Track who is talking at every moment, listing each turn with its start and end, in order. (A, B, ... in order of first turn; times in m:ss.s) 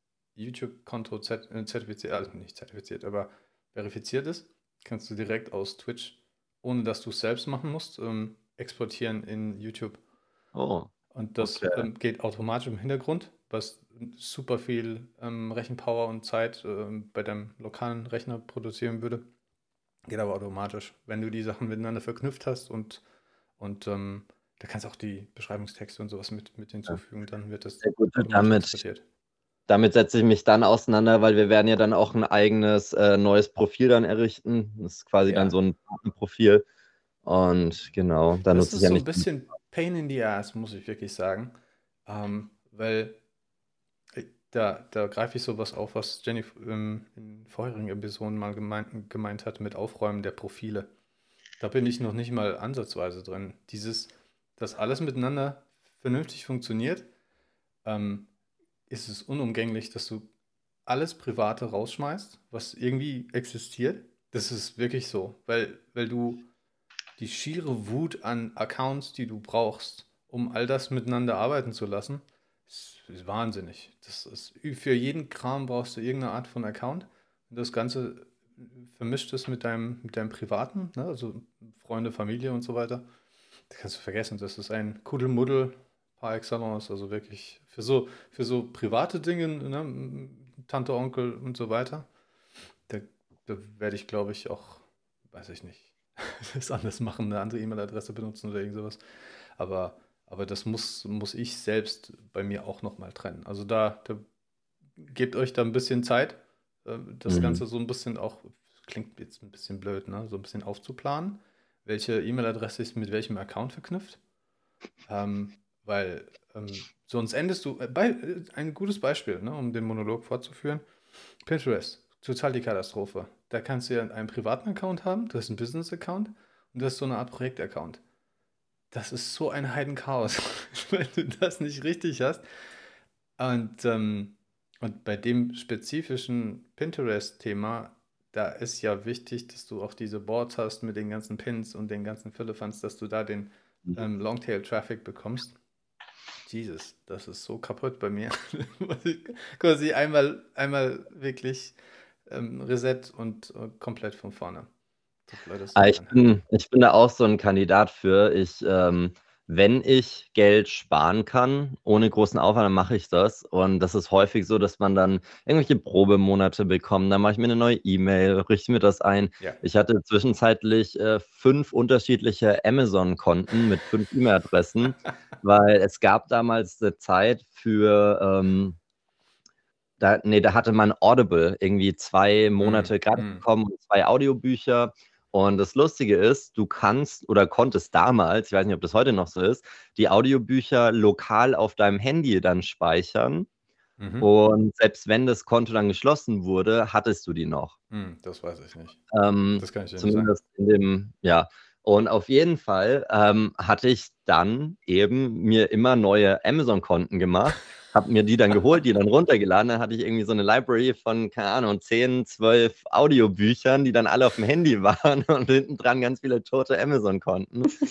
0:00.4-0:10.0 A
0:10.5-0:11.9 B
0:11.1-0:19.3 A
0:20.1-0:23.0 A
0:23.6-0:29.0 A
0:27.8-0:28.8 B
0:29.7-0:36.6 B
0:35.2-0:35.6 A
0:37.2-0:39.2 B
0:38.5-0:41.6 A
0:42.1-0:43.2 A
0:44.2-0:50.9 A
0:51.6-0:57.1 A
0:57.8-0:58.3 A
0:58.9-1:00.3 A
1:00.9-1:06.5 A
1:07.2-1:23.1 A
1:23.7-1:32.1 A
1:32.9-1:39.0 A
1:39.6-1:44.2 A
1:45.0-1:54.2 A
1:47.3-1:47.6 B
1:55.1-2:00.8 A
2:01.4-2:08.0 A
2:08.9-2:12.4 A
2:13.4-2:25.6 A
2:26.4-2:31.8 A
2:32.3-2:34.7 A
2:35.3-2:36.3 A
2:35.8-2:58.8 B
3:00.0-3:13.5 B
3:02.6-3:03.4 A
3:14.0-3:14.3 A
3:14.2-3:17.7 B
3:17.9-3:19.0 A
3:19.1-3:37.7 B
3:19.6-3:20.3 A